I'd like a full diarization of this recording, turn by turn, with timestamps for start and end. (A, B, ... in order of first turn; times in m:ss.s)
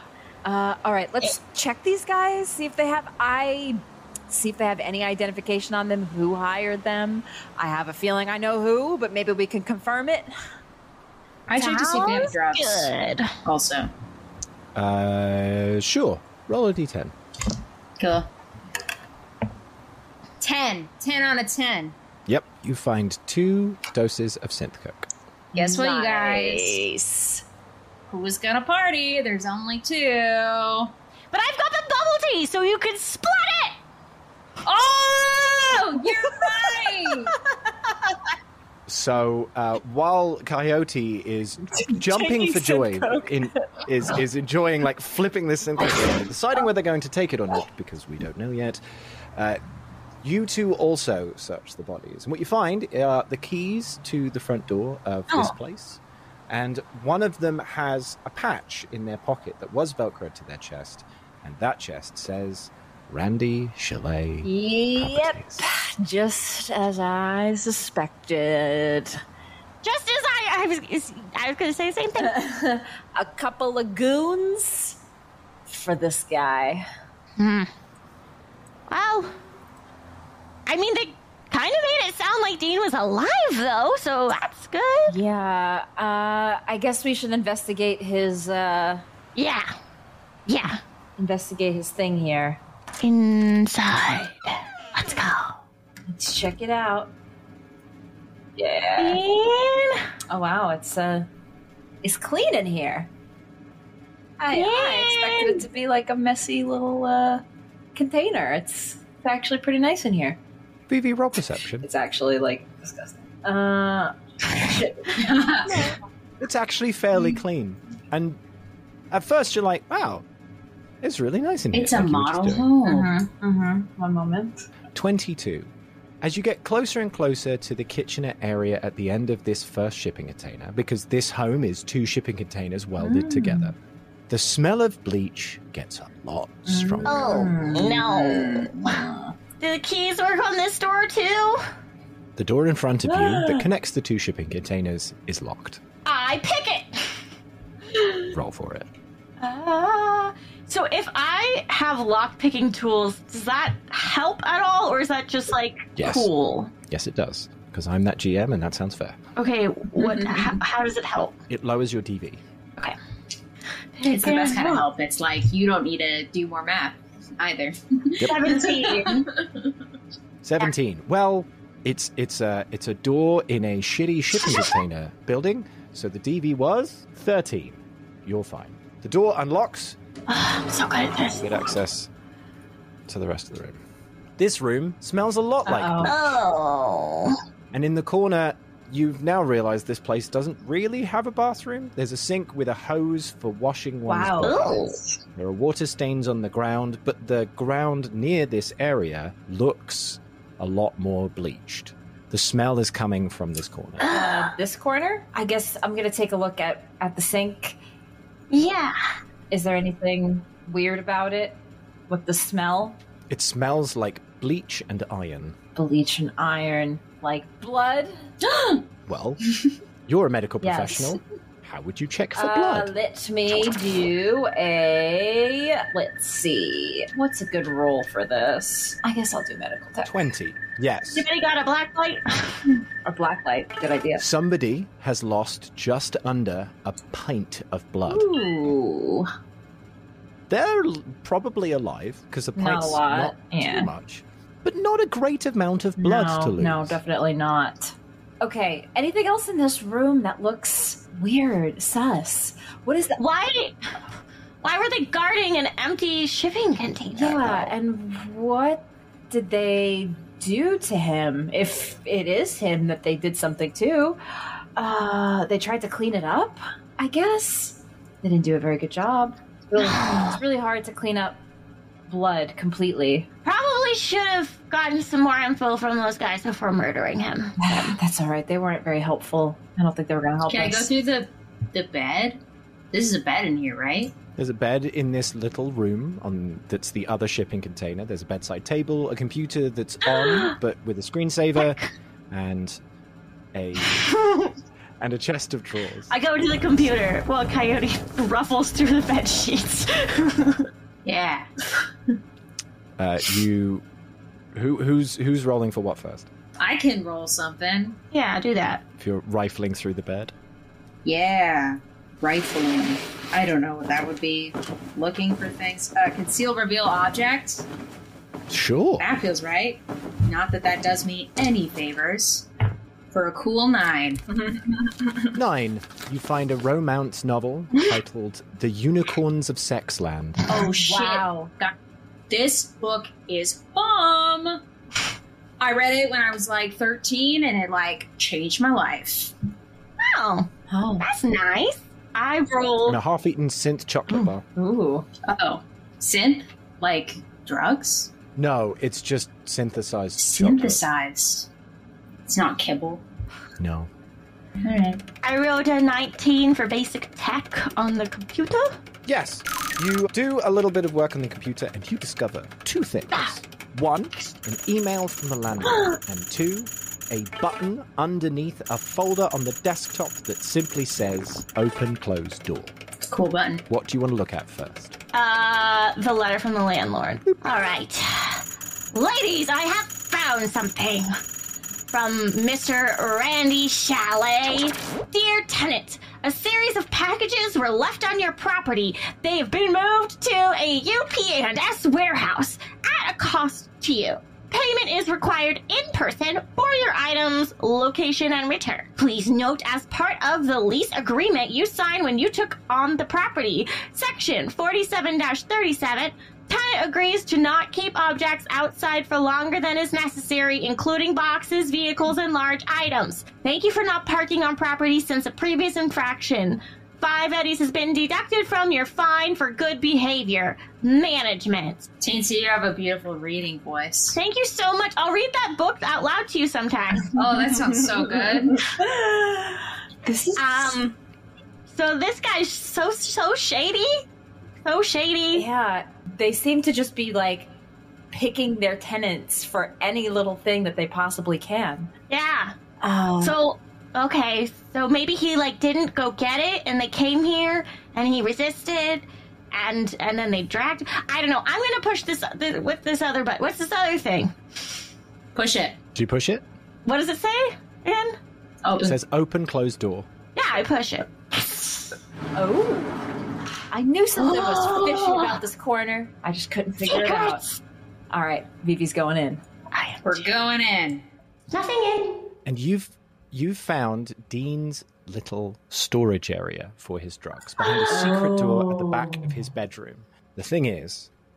0:00.4-0:10.3 A
0:11.5-0:12.9 B
0:11.6-0:13.3 C
0:13.4-0:13.9 B
0:14.8-0:17.1 D
0:18.0-0:18.3 B
0:20.4-0:22.0 B
0:22.3-0:25.1 D
0:25.5-0:26.8 B
0:25.5-0:27.4 A
0:28.1-0:30.9 B
0:31.3-0:33.8 C
0:34.7-0:37.3 B
0:36.3-0:36.8 A
0:38.9-0:48.8 D
0:41.8-0:43.7 A
0:50.2-1:05.6 D
1:04.4-1:09.2 A
1:09.8-1:12.3 C
1:12.2-1:15.0 A
1:15.7-1:16.9 A
1:17.4-1:17.7 C
1:18.9-1:19.3 C
1:20.7-1:25.2 C
1:25.1-1:29.0 A
1:29.4-1:29.8 C
1:30.5-1:30.8 C
1:31.2-1:32.6 A
1:33.0-1:35.6 C
1:36.1-1:37.1 A
1:38.6-1:39.2 A
1:39.0-1:40.0 C
1:40.3-1:41.3 A
1:42.0-1:43.1 A
1:44.4-1:47.4 A
1:44.5-1:45.6 C
1:48.0-1:50.4 A
1:50.9-1:51.9 D
1:51.8-1:55.3 A
1:55.2-1:55.8 B
1:56.4-1:58.4 D
1:59.1-2:00.2 D
2:01.0-2:02.7 D
2:01.7-2:03.1 B
2:02.8-2:04.6 A
2:04.9-2:13.8 D
2:13.0-2:13.7 A
2:14.3-2:17.4 D
2:16.7-2:19.3 A
2:17.0-2:18.7 C
2:19.6-2:21.6 C
2:22.4-2:25.8 D
2:23.1-2:23.7 A
2:26.0-2:27.2 C
2:28.3-2:28.9 D
2:29.4-2:36.7 C
2:36.0-2:36.3 D
2:36.9-2:39.2 D
2:39.4-2:41.4 C
2:41.5-2:42.4 D
2:44.0-2:44.8 C
2:44.1-2:49.7 B
2:48.2-2:49.3 C
2:50.4-3:00.0 D
3:00.3-3:01.6 C
3:01.4-3:02.1 D
3:03.1-3:03.8 D
3:04.4-3:06.2 D
3:05.6-3:06.2 A
3:06.0-3:07.4 C
3:07.7-3:14.8 D
3:14.1-3:14.8 A
3:14.4-3:15.0 C
3:15.4-3:24.1 D
3:24.0-3:24.5 C
3:24.1-3:27.8 A
3:28.5-3:29.0 C
3:29.5-3:31.6 A
3:32.1-3:33.0 A
3:33.3-3:35.6 D
3:35.8-3:38.3 A
3:38.4-3:38.9 B
3:39.1-3:39.4 D
3:40.1-3:42.9 D
3:40.6-3:41.2 A
3:42.4-3:50.1 A
3:50.0-3:51.3 D
3:51.1-3:52.6 C
3:53.0-3:54.2 A
3:54.2-3:58.7 D
3:58.1-3:59.3 A
4:00.5-4:07.0 D
4:02.6-4:03.9 A
4:06.0-4:13.2 A
4:13.2-4:13.9 C
4:14.6-4:17.6 C
4:17.2-4:24.2 A
4:24.8-4:31.4 A
4:29.8-4:30.3 C
4:32.1-4:33.3 A
4:33.4-4:38.0 C
4:37.6-4:40.9 A
4:40.5-4:42.4 B
4:42.9-4:44.1 B
4:44.4-4:52.8 D
4:50.1-4:50.5 C
4:51.6-4:51.9 C
4:53.5-4:54.1 D
4:53.9-4:54.5 C
4:55.0-4:56.1 D
4:56.1-5:00.7 C
5:01.0-5:01.5 B
5:03.0-5:03.8 D
5:04.5-5:06.3 D
5:06.6-5:08.0 B
5:08.1-5:08.8 C
5:09.0-5:10.3 D
5:11.0-5:17.7 B
5:18.5-5:19.1 D
5:19.0-5:22.5 B
5:23.1-5:24.2 B
5:25.3-5:30.5 D
5:30.5-5:31.7 B
5:30.8-5:31.5 A
5:32.3-5:34.6 B
5:35.6-5:39.3 B
5:40.0-5:40.5 C
5:40.7-5:41.1 A
5:41.0-5:43.0 C
5:42.9-5:44.4 D
5:44.6-5:45.1 A
5:45.3-5:48.1 B
5:48.4-5:50.8 D
5:50.2-5:51.5 B
5:52.3-5:53.0 B
5:53.6-5:53.9 D
5:54.6-5:55.0 B
5:55.2-5:58.8 C
5:59.0-6:12.7 D
6:13.1-6:13.6 B
6:13.7-6:14.9 D
6:15.1-6:21.1 C
6:17.3-6:17.5 D
6:21.9-7:01.9 C
7:02.0-7:04.2 B
7:04.1-7:07.1 C
7:07.2-7:08.5 B
7:08.0-7:10.8 A
7:10.4-7:11.0 C
7:11.7-7:14.0 C
7:14.6-7:15.4 C
7:15.3-7:17.5 A
7:18.1-7:21.9 A
7:22.1-7:22.6 C
7:22.8-7:23.4 A
7:23.2-7:34.3 C
7:35.4-7:35.8 B
7:36.0-7:36.4 D
7:36.8-7:38.2 C
7:38.6-7:39.0 B
7:38.8-7:40.1 D
7:40.4-7:41.9 C
7:42.4-7:43.0 A
7:43.7-7:47.4 A
7:46.8-7:47.6 C
7:48.1-7:49.4 A
7:49.7-7:50.3 C
7:50.0-7:51.0 B
7:51.5-7:52.2 C
7:52.4-8:01.1 D
7:57.9-7:59.3 A